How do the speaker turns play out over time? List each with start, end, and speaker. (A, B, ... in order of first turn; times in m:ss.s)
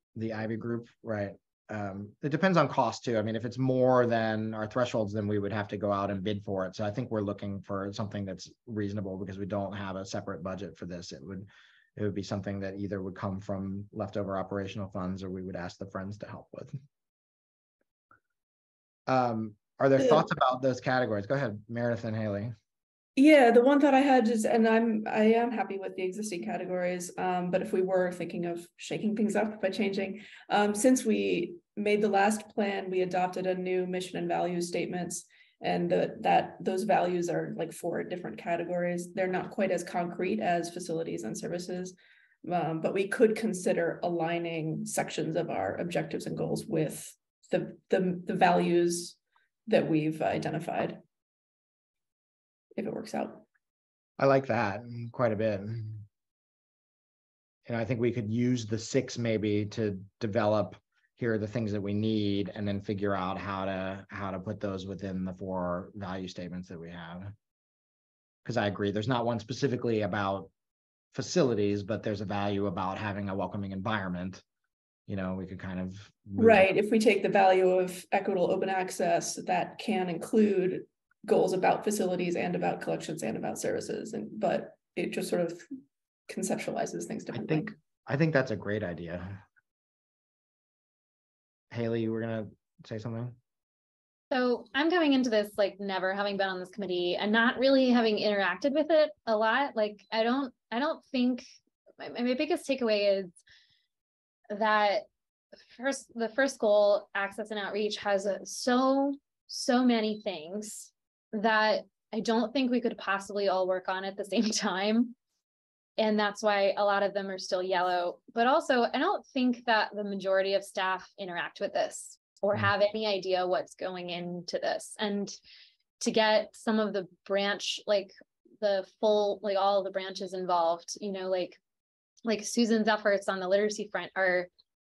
0:00.2-0:16.8 A
0:19.1-0:22.5 A
0:20.0-0:20.2 B
0:23.2-0:51.0 B
0:52.8-0:53.5 B
0:54.2-0:56.1 A
0:57.7-1:07.3 A
1:08.4-1:10.5 A
1:11.1-1:14.4 A
1:15.1-1:16.7 A
1:16.4-1:25.7 B
1:26.3-1:27.7 B
1:27.3-1:29.4 A
1:31.7-1:33.4 A
1:34.3-1:41.5 C
1:42.0-1:43.4 C
1:44.5-1:45.0 C
1:45.8-1:55.2 C
1:56.0-2:05.4 C
2:06.0-2:11.6 C
2:12.3-2:14.5 C